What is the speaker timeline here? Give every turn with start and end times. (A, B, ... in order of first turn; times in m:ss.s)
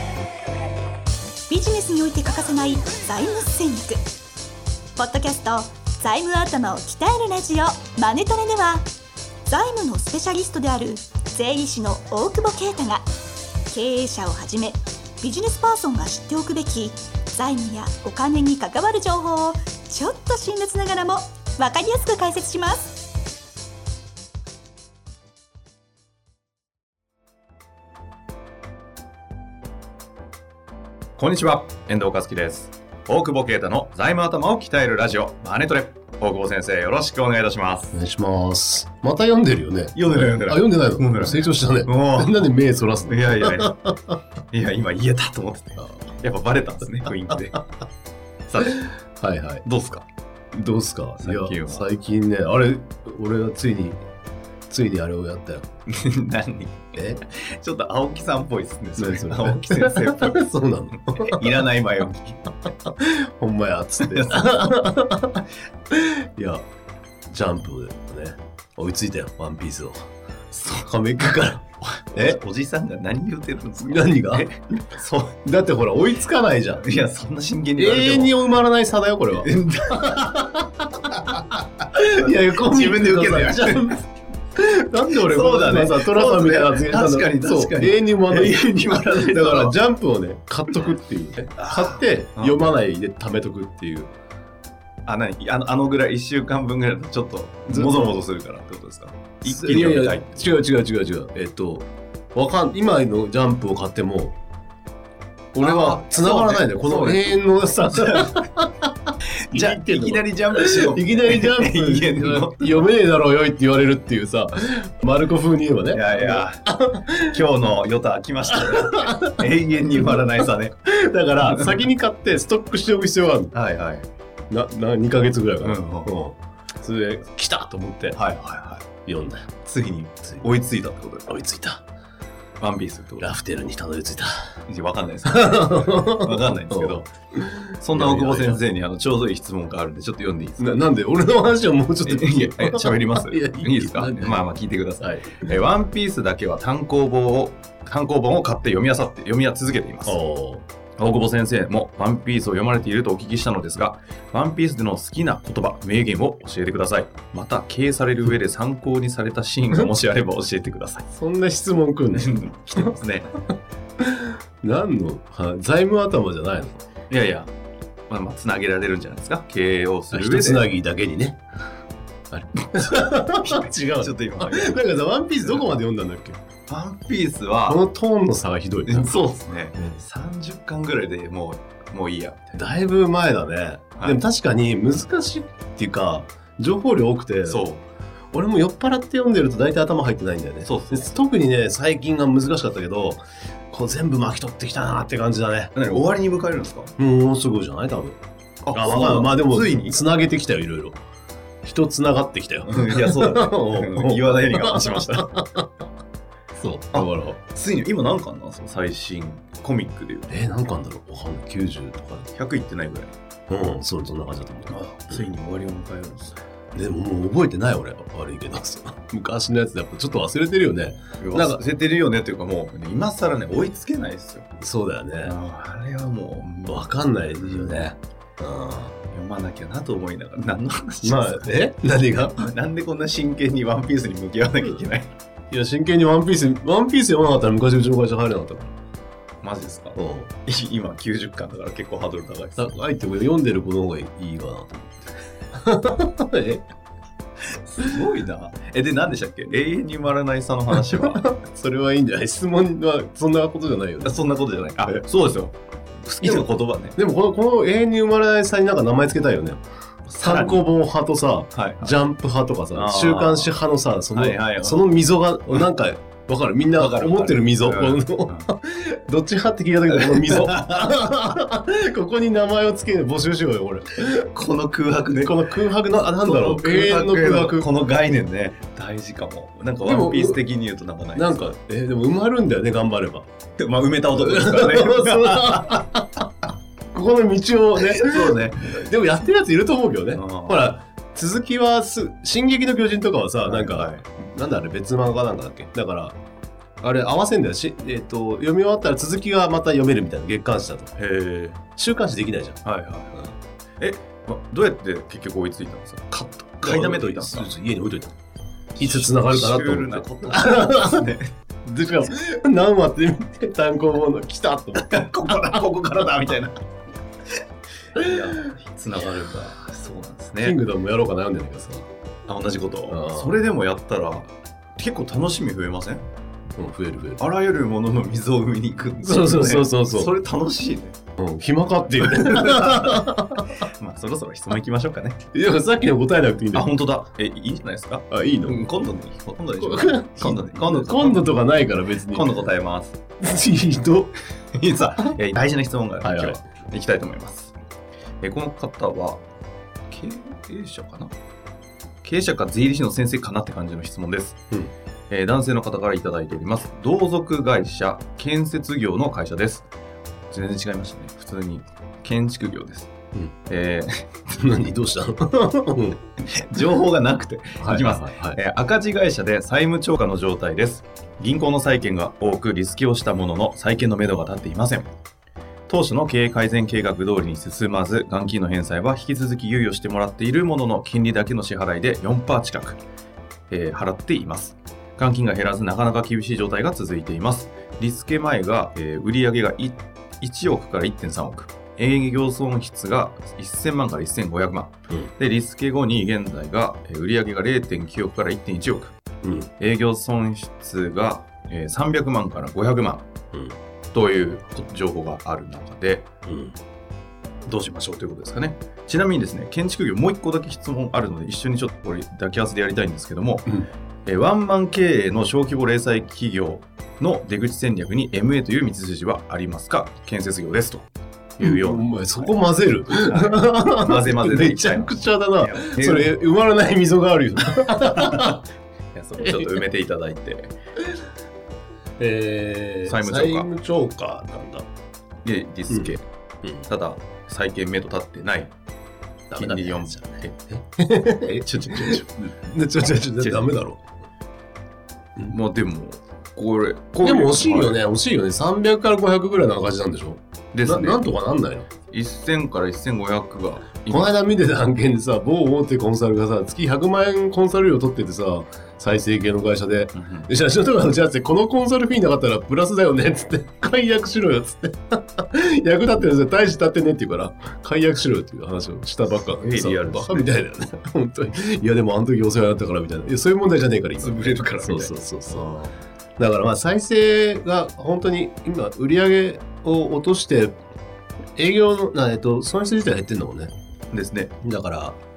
0:01.5-0:04.0 A
0:05.0-0:08.9 A
0:09.5-0:13.1 A
0:13.7-0:23.1 A
0:31.2-0:38.0 B
0:37.9-0:44.2 C
0:40.0-0:42.5 B
0:43.1-0:43.8 B
0:44.5-0:47.7 B
0:48.5-0:48.9 B
0:48.6-0:49.6 C
0:49.6-0:50.1 B
0:50.5-0:54.0 C
0:51.2-0:51.8 B
0:54.7-0:55.7 C
0:55.9-1:00.4 B
0:56.9-0:57.2 C
0:59.0-1:01.6 C
1:01.0-1:02.6 B
1:02.8-1:06.6 C
1:04.0-1:04.7 B
1:07.3-1:10.0 C
1:10.5-1:10.9 B
1:10.9-1:12.4 C
1:11.9-1:15.4 B
1:13.8-1:14.5 C
1:15.4-1:16.8 C
1:16.8-1:18.4 B
1:17.8-1:24.0 C
1:19.3-1:20.3 B
1:21.1-1:24.0 B
1:24.6-1:34.1 C
1:25.2-1:29.8 B
1:31.6-1:32.7 B
1:35.1-1:40.5 B
1:37.7-1:38.2 C
1:39.4-1:44.4 C
1:45.5-1:57.4 C
1:45.6-1:48.4 B
1:49.3-1:52.9 B
1:55.9-1:56.6 B
1:57.2-2:00.8 B
1:58.5-2:03.5 C
2:01.4-2:01.9 B
2:03.5-2:04.1 B
2:04.5-2:08.2 C
2:05.6-2:06.2 B
2:08.1-2:08.9 B
2:09.1-2:09.5 C
2:09.6-2:11.3 B
2:11.3-2:11.8 C
2:12.6-2:13.3 B
2:13.2-2:14.5 C
2:14.7-2:17.1 B
2:15.2-2:18.6 C
2:17.8-2:20.8 B
2:20.6-2:24.5 C
2:22.0-2:30.2 B
2:25.0-2:25.5 C
2:30.0-2:30.6 C
2:31.0-2:41.1 B
2:41.1-2:42.9 C
2:42.1-2:43.4 B
2:44.0-2:46.8 C
2:47.1-2:47.5 B
2:48.1-2:50.7 B
2:50.1-2:51.4 C
2:52.3-2:56.4 C
2:52.7-2:54.8 B
2:56.7-2:57.8 B
2:57.7-2:59.9 C
2:58.9-3:02.6 B
3:02.6-3:07.7 C
3:07.4-3:07.8 B
3:08.3-3:15.8 C
3:10.6-3:11.2 B
3:15.8-3:16.9 B
3:17.0-3:18.2 C
3:18.6-3:20.0 B
3:18.7-3:21.0 C
3:21.6-3:25.7 C
3:22.7-3:25.3 B
3:26.5-3:27.4 C
3:26.9-3:30.3 B
3:30.3-3:32.3 C
3:32.3-3:33.2 B
3:33.5-3:35.3 C
3:34.7-3:36.4 B
3:36.7-3:41.6 C
3:41.2-3:44.5 B
3:44.6-3:45.4 C
3:45.2-3:47.9 B
3:46.7-3:49.0 C
3:49.1-3:51.6 B
3:51.0-3:52.5 C
3:52.1-3:55.1 B
3:55.5-3:58.7 C
3:59.4-4:02.7 B
4:00.0-4:00.3 C
4:02.6-4:05.0 C
4:05.5-4:06.6 C
4:07.6-4:11.3 B
4:10.7-4:14.2 C
4:14.0-4:17.0 B
4:16.2-4:19.6 C
4:20.1-4:20.7 B
4:20.2-4:34.3 C
4:21.5-4:22.0 B
4:22.7-4:23.6 B
4:24.1-4:24.9 B
4:26.7-4:28.5 B
4:29.9-4:30.9 B
4:34.3-4:35.4 B
4:35.2-4:37.7 C
4:36.1-4:41.4 B
4:39.8-4:40.4 C
4:41.2-4:43.3 C
4:43.6-4:45.8 B
4:44.1-4:46.3 C
4:46.9-4:56.2 C
4:47.8-4:48.8 B
4:50.1-4:50.7 B
4:53.5-4:54.0 B
4:56.8-5:00.9 C
5:01.0-5:01.6 B
5:01.8-5:02.6 C
5:02.6-5:03.3 B
5:03.8-5:07.5 B
5:06.6-5:08.2 C
5:08.8-5:11.3 B
5:08.8-5:11.1 C
5:11.6-5:15.7 C
5:14.8-5:16.6 B
5:18.0-5:20.6 B
5:20.4-5:21.9 C
5:22.3-5:26.0 B
5:22.9-5:23.3 C
5:26.6-5:27.2 C
5:27.2-5:31.0 B
5:29.0-5:30.1 C
5:31.2-5:33.6 C
5:32.0-5:33.1 B
5:33.6-5:35.2 B
5:35.3-5:36.7 C
5:36.5-5:41.4 B
5:38.1-5:38.8 C
5:39.6-5:42.3 C
5:42.1-5:43.0 B
5:43.2-5:44.1 C
5:44.5-5:47.6 B
5:46.0-5:46.4 C
5:48.2-5:49.2 B
5:49.9-5:51.1 B
5:52.0-5:54.4 B
5:55.1-5:59.7 B
6:00.3-6:02.9 B
6:03.5-6:04.4 B
6:04.4-6:06.0 C
6:06.2-6:14.9 B
6:07.6-6:08.4 C
6:15.7-6:22.8 B
6:23.5-6:39.0 B
6:39.2-6:39.5 C
6:39.6-6:43.1 B
6:43.9-6:46.1 B
6:46.2-6:46.6 C
6:47.5-6:53.5 B
6:54.1-7:02.4 B
7:01.4-7:08.4 C
7:02.9-7:06.1 B
7:07.9-7:08.4 B
7:08.9-7:10.5 B
7:09.2-7:09.6 C
7:12.0-7:14.7 C
7:12.8-7:13.5 B
7:15.2-7:16.1 B
7:15.7-7:16.7 C
7:16.7-7:18.5 B
7:19.3-7:23.8 C
7:19.4-7:20.3 B
7:21.5-7:22.3 B
7:23.2-7:23.5 B
7:25.2-7:27.8 B
7:27.0-7:31.7 C
7:30.5-7:31.1 B
7:31.9-7:34.2 B
7:33.9-7:55.5 C
7:40.0-7:40.3 B
7:49.4-7:50.3 B
7:54.0-7:55.8 B
7:56.2-8:00.6 C
8:01.4-8:03.5 C
8:03.9-8:04.3 B
8:04.4-8:05.0 C